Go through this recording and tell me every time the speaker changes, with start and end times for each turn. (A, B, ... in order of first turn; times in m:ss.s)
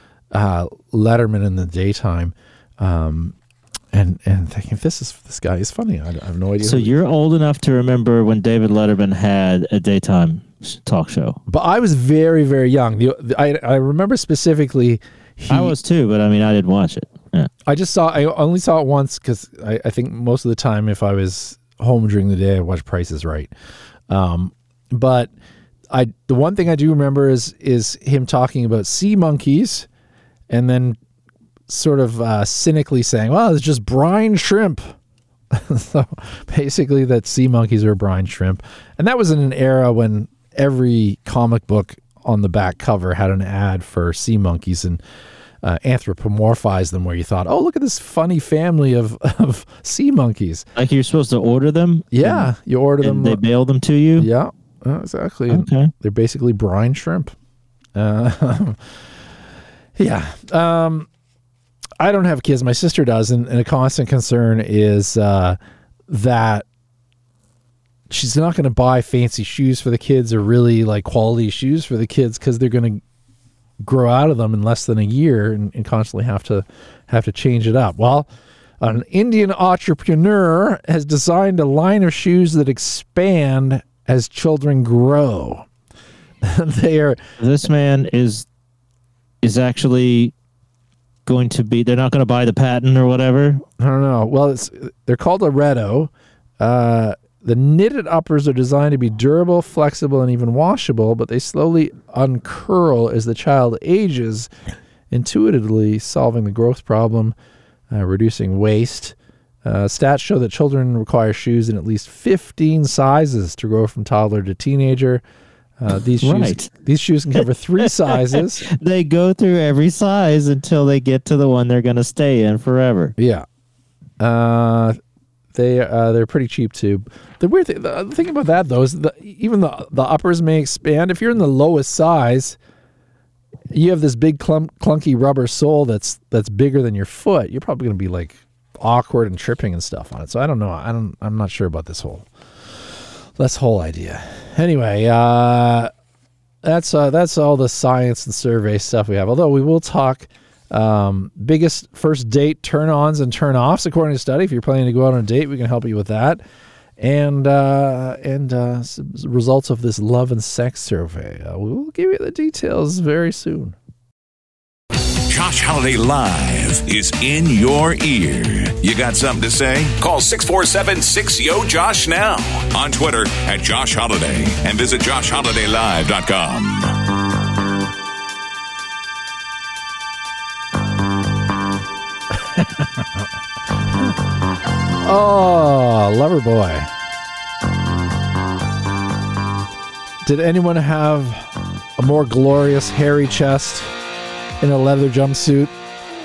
0:00.3-0:03.3 A
0:03.9-0:06.9 A
0:06.6-0:11.4 B
0:11.5-0:15.8 A
0:15.5-0:17.5 B
0:17.6-0:23.5 A
0:24.1-0:25.3 A
0:25.9-0:29.9 A
0:30.5-0:31.0 A
0:31.7-0:34.9 A
0:35.5-0:45.0 A
0:45.6-0:50.7 A
0:50.8-0:52.5 B
0:52.1-0:53.4 A
0:53.0-0:54.3 B
0:54.2-0:57.3 A
0:55.5-0:55.9 B
0:57.9-0:58.8 A
1:00.0-1:01.1 A
1:02.0-1:06.6 A
1:08.1-1:13.0 A
1:13.8-1:18.3 A
1:18.8-1:25.6 A
1:26.4-1:27.2 A
1:27.4-1:28.4 B
1:29.4-1:30.3 B
1:31.2-1:33.6 B
1:33.8-1:44.5 A
1:45.1-1:47.3 A
1:47.9-1:55.2 A
1:55.8-1:58.6 A
1:56.2-1:56.7 B
1:57.8-2:03.1 B
2:03.2-2:03.4 A
2:04.2-2:05.0 A
2:05.5-2:12.6 A
2:13.7-2:22.3 A
2:22.8-2:25.9 A
2:26.6-2:36.4 A
2:37.0-2:43.8 A
2:45.2-2:56.9 C
3:02.4-3:03.1 A
3:05.0-3:06.9 A
3:10.2-3:13.9 A
3:14.6-3:15.7 A